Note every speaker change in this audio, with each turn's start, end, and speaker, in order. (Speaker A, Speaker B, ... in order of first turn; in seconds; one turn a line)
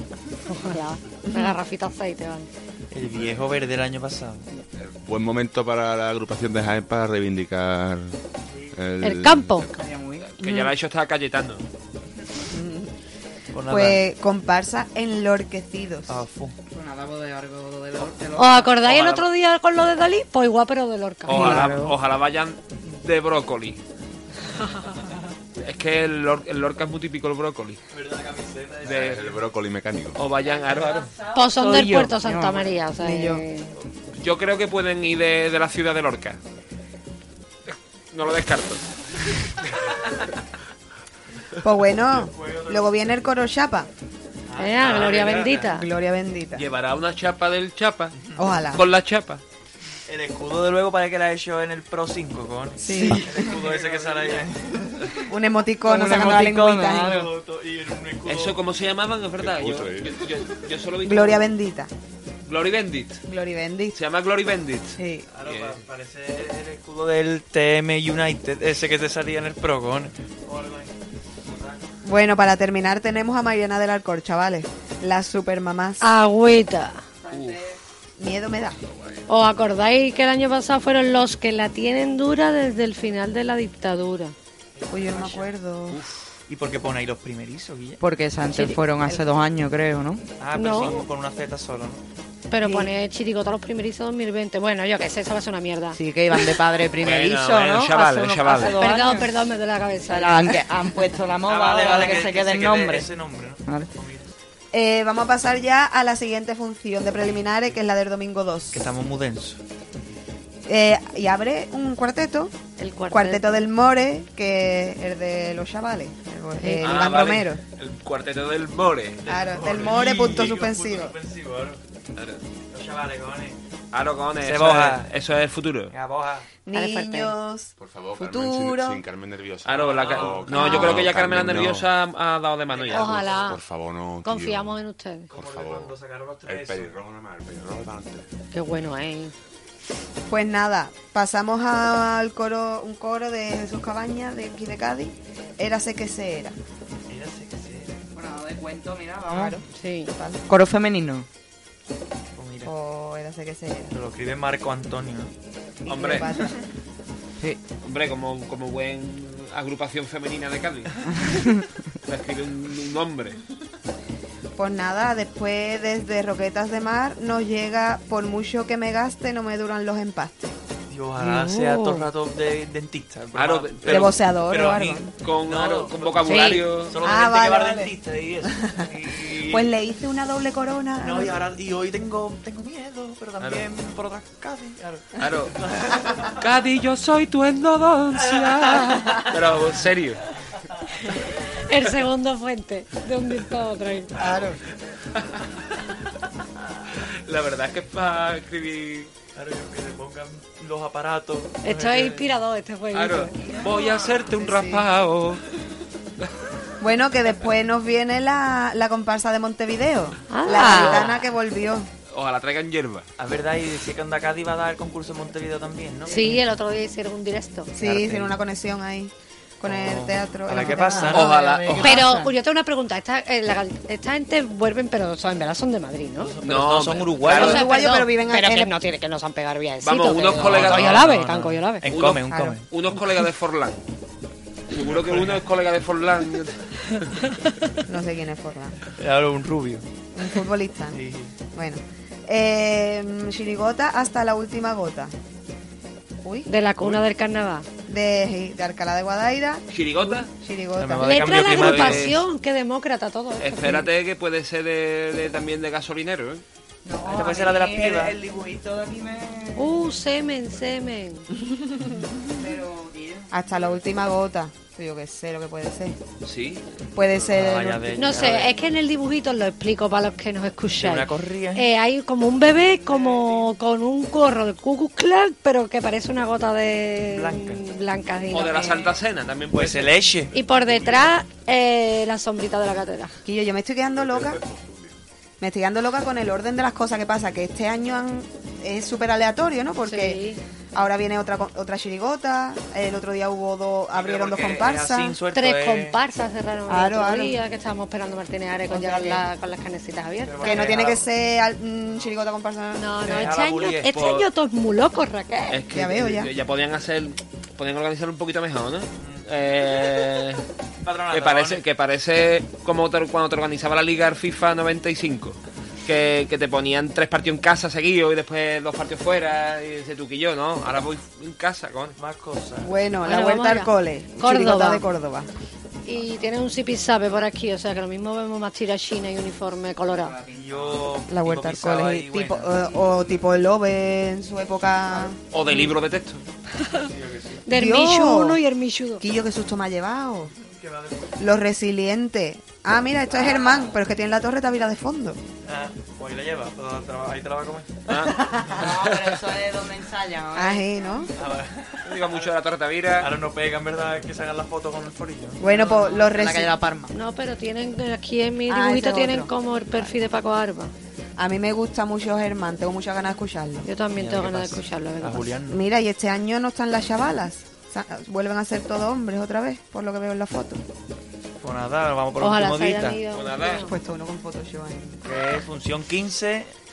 Speaker A: 0.5-2.5
Speaker B: 2.9-4.5
Speaker C: 4.8-8.2
Speaker C: 8.7-9.8
Speaker A: 9.0-9.7
Speaker D: 9.7-10.3
Speaker E: 10.2-11.6
Speaker F: 12.5-12.9
Speaker B: 13.5-14.0
Speaker F: 13.7-16.2
Speaker B: 16.1-16.6
Speaker D: 16.7-18.7
Speaker A: 18.4-21.6
Speaker E: 18.8-19.3
Speaker E: 21.3-23.8
Speaker F: 21.3-21.9
Speaker D: 21.3-21.9
Speaker E: 25.6-27.8
Speaker B: 27.9-29.4
Speaker C: 28.8-30.2
Speaker E: 28.9-29.2
Speaker E: 30.2-31.1
Speaker D: 30.4-32.8
Speaker A: 31.3-33.7
Speaker F: 33.0-33.4
Speaker E: 34.1-36.4
Speaker E: 37.7-39.8
Speaker F: 41.6-43.9
Speaker B: 42.1-43.2
Speaker B: 44.5-45.7
Speaker A: 44.6-45.9
Speaker F: 45.0-46.6
Speaker E: 46.5-48.2
Speaker F: 48.4-48.8
Speaker E: 48.7-49.4
Speaker B: 50.1-55.2
Speaker F: 52.8-53.6
Speaker F: 55.3-57.2
Speaker D: 55.8-57.3
Speaker B: 56.3-58.6
Speaker E: 58.3-61.5
Speaker C: 59.4-60.2
Speaker F: 61.0-61.9
Speaker E: 62.5-63.2
Speaker F: 63.3-64.0
Speaker E: 63.9-65.8
Speaker F: 65.0-65.3
Speaker B: 65.3-71.8
Speaker F: 72.0-76.1
Speaker A: 76.0-77.0
Speaker E: 77.3-77.7
Speaker F: 78.2-78.8
Speaker C: 78.8-79.2
Speaker A: 79.3-84.3
Speaker B: 84.9-85.5
Speaker F: 84.9-86.0
Speaker E: 85.9-86.4
Speaker B: 86.5-88.0
Speaker D: 88.0-90.3
Speaker A: 88.5-88.8
Speaker B: 90.4-92.0
Speaker A: 90.5-91.0
Speaker A: 92.5-96.5
Speaker D: 92.6-92.9
Speaker D: 96.0-99.5
Speaker E: 97.0-98.8
Speaker A: 98.7-100.6
Speaker D: 100.1-103.1
Speaker B: 101.5-104.3
Speaker F: 104.7-108.9
Speaker B: 108.7-109.6
Speaker F: 110.7-112.5
Speaker A: 112.8-113.7
Speaker F: 113.1-117.6
Speaker A: 116.6-117.0
Speaker E: 116.8-119.2
Speaker B: 119.2-121.8
Speaker F: 119.3-121.2
Speaker E: 122.2-122.4
Speaker B: 122.7-123.6
Speaker E: 123.9-125.9
Speaker B: 124.4-125.1
Speaker B: 125.9-126.5
Speaker F: 126.7-129.0
Speaker A: 126.7-127.3
Speaker C: 127.8-131.9
Speaker E: 129.7-133.3
Speaker B: 129.8-130.5
Speaker A: 130.5-130.9
Speaker B: 132.7-133.4
Speaker A: 132.9-133.6
Speaker C: 133.2-134.8
Speaker A: 134.2-135.3
Speaker C: 135.3-135.9
Speaker B: 135.3-136.9
Speaker C: 136.5-138.2
Speaker A: 138.5-139.3
Speaker F: 140.3-146.6
Speaker B: 147.1-148.1
Speaker D: 148.2-149.6
Speaker F: 149.3-150.4
Speaker A: 149.8-150.1
Speaker D: 150.5-151.3
Speaker B: 152.4-152.7
Speaker F: 152.6-153.9
Speaker B: 153.9-155.3
Speaker F: 155.8-156.6
Speaker E: 155.9-156.3
Speaker E: 157.8-161.2
Speaker E: 162.0-163.4
Speaker F: 164.6-170.6
Speaker B: 170.9-179.8
Speaker A: 171.2-172.1
Speaker E: 173.3-174.2
Speaker F: 173.9-175.1
Speaker E: 175.2-177.0
Speaker A: 176.2-176.7
Speaker F: 177.0-177.9
Speaker F: 179.5-181.4
Speaker B: 181.0-186.2
Speaker E: 183.4-183.7
Speaker E: 185.2-185.6
Speaker E: 186.4-190.2
Speaker A: 191.0-194.1
Speaker F: 194.2-194.6
Speaker E: 197.0-199.1
Speaker B: 199.3-202.3
Speaker A: 201.6-203.3
Speaker E: 202.9-205.4
Speaker F: 204.4-204.8
Speaker F: 206.8-211.9
Speaker A: 210.3-211.1
Speaker E: 212.1-213.1
Speaker B: 213.2-216.4
Speaker A: 216.1-217.7
Speaker F: 217.8-221.3
Speaker B: 217.8-218.4
Speaker B: 219.6-221.3
Speaker D: 220.5-222.3
Speaker E: 221.1-222.0
Speaker A: 221.7-226.3
Speaker B: 226.2-227.7
Speaker E: 226.4-227.7
Speaker F: 227.3-228.8
Speaker A: 227.3-231.8
Speaker E: 229.8-231.0
Speaker B: 230.3-232.6
Speaker E: 231.8-233.8
Speaker F: 232.3-232.6
Speaker E: 234.7-237.2
Speaker B: 234.8-235.4
Speaker F: 237.9-238.8
Speaker B: 239.0-239.8
Speaker F: 240.1-241.0
Speaker B: 240.9-241.3
Speaker F: 241.5-245.1
Speaker F: 246.2-246.5
Speaker A: 246.5-247.7
Speaker F: 247.9-249.7
Speaker E: 249.7-250.3
Speaker F: 250.3-251.4
Speaker B: 250.8-252.2
Speaker A: 251.0-253.9
Speaker E: 251.3-252.2
Speaker E: 253.4-256.4
Speaker D: 256.9-259.8
Speaker B: 257.1-258.1
Speaker A: 259.6-261.3
Speaker F: 261.5-262.1
Speaker D: 262.4-263.3
Speaker F: 263.3-266.0
Speaker E: 266.2-266.8
Speaker F: 266.9-268.2
Speaker B: 267.1-268.5
Speaker A: 268.0-278.9
Speaker B: 270.7-271.7
Speaker B: 273.1-273.4
Speaker B: 277.1-277.6
Speaker E: 278.3-279.9
Speaker B: 279.5-280.3
Speaker A: 280.3-283.2
Speaker F: 283.2-284.4
Speaker C: 283.9-285.0
Speaker F: 285.4-290.2
Speaker A: 289.8-290.4
Speaker F: 290.7-295.2
Speaker E: 293.9-294.7
Speaker B: 294.6-296.0
Speaker A: 295.3-300.7
Speaker F: 296.7-297.4
Speaker F: 298.7-299.2
Speaker B: 300.2-301.1
Speaker F: 300.4-303.4
Speaker A: 302.7-305.6
Speaker B: 303.0-303.9
Speaker E: 303.9-304.3
Speaker E: 305.5-310.4
Speaker F: 305.7-306.3
Speaker B: 309.0-309.3
Speaker B: 310.8-311.6
Speaker E: 311.1-322.0
Speaker B: 322.0-322.7
Speaker F: 322.6-325.3
Speaker A: 323.1-324.8
Speaker A: 325.9-330.2
Speaker D: 330.1-330.6
Speaker B: 330.3-333.1
Speaker F: 331.1-335.2
Speaker E: 335.3-336.2
Speaker B: 336.8-337.4
Speaker A: 337.5-339.0
Speaker F: 337.5-338.4
Speaker F: 339.0-340.3
Speaker B: 340.4-341.2
Speaker F: 341.2-345.2
Speaker D: 343.1-343.8
Speaker B: 345.4-348.6
Speaker E: 347.9-349.4
Speaker D: 348.5-350.7
Speaker F: 350.3-351.1
Speaker B: 351.2-352.3
Speaker E: 351.9-353.1
Speaker B: 353.0-355.4
Speaker F: 355.4-356.5
Speaker D: 355.4-356.9
Speaker A: 356.9-360.7
Speaker F: 358.5-360.0
Speaker F: 361.2-363.7
Speaker A: 363.6-365.3
Speaker B: 364.0-365.6
Speaker F: 365.5-370.6
Speaker B: 371.4-373.0
Speaker A: 372.2-373.7
Speaker E: 373.1-373.6
Speaker F: 373.6-375.3
Speaker B: 375.0-376.5